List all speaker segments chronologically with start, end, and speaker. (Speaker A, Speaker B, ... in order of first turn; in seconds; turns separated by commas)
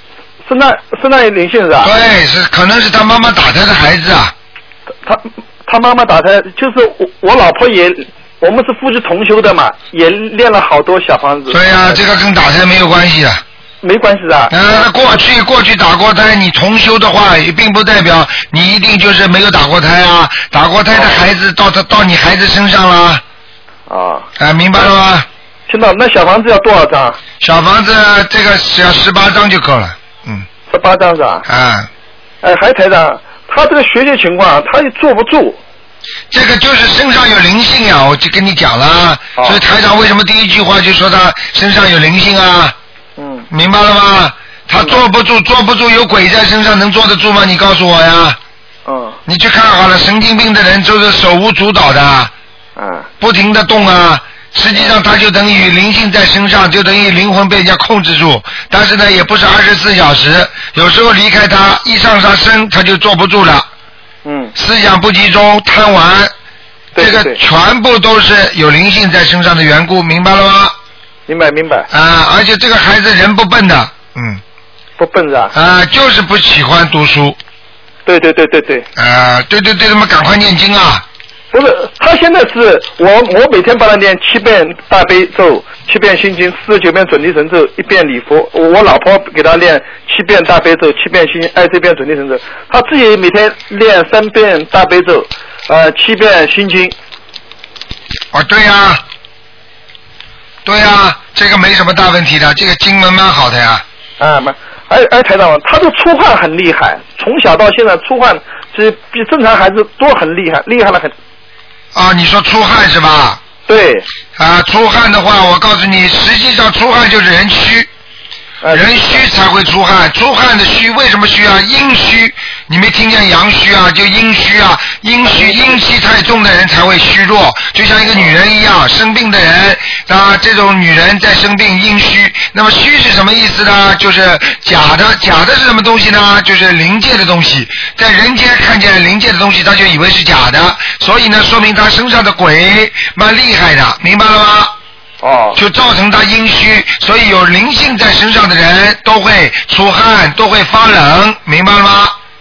Speaker A: 0.5-1.9, Speaker B: 1.8-4.3, Speaker A: 5.0-12.0, Speaker B: 11.5-13.4, Speaker A: 13.8-14.8, Speaker B: 14.5-23.2, Speaker A: 20.9-21.2, Speaker A: 23.9-24.3, Speaker B: 24.4-25.3, Speaker A: 25.7-27.2, Speaker B: 27.4-30.5, Speaker A: 30.7-31.4, Speaker B: 31.5-31.9, Speaker A: 32.4-35.6, Speaker B: 36.3-42.8, Speaker A: 43.2-43.5, Speaker B: 43.5-48.4, Speaker A: 44.8-45.0, Speaker A: 48.9-49.2, Speaker B: 49.3-52.3, Speaker A: 52.8-53.1, Speaker B: 53.2-63.7, Speaker A: 64.2-64.5, Speaker B: 64.6-66.3, Speaker A: 67.0-67.4, Speaker B: 67.0-70.8, Speaker A: 71.3-71.9, Speaker B: 71.9-74.4, Speaker A: 75.0-75.5, Speaker B: 75.5-77.4, Speaker A: 78.1-78.9, Speaker B: 79.0-81.0, Speaker A: 81.5-97.0, Speaker B: 98.3-99.0, Speaker B: 100.7-103.8, Speaker A: 104.2-111.1, Speaker B: 111.9-113.4, Speaker A: 113.7-114.1, Speaker B: 114.4-117.9, Speaker A: 118.6-119.2, Speaker B: 118.7-144.8, Speaker A: 125.2-125.8, Speaker A: 145.2-145.6, Speaker B: 145.6-152.2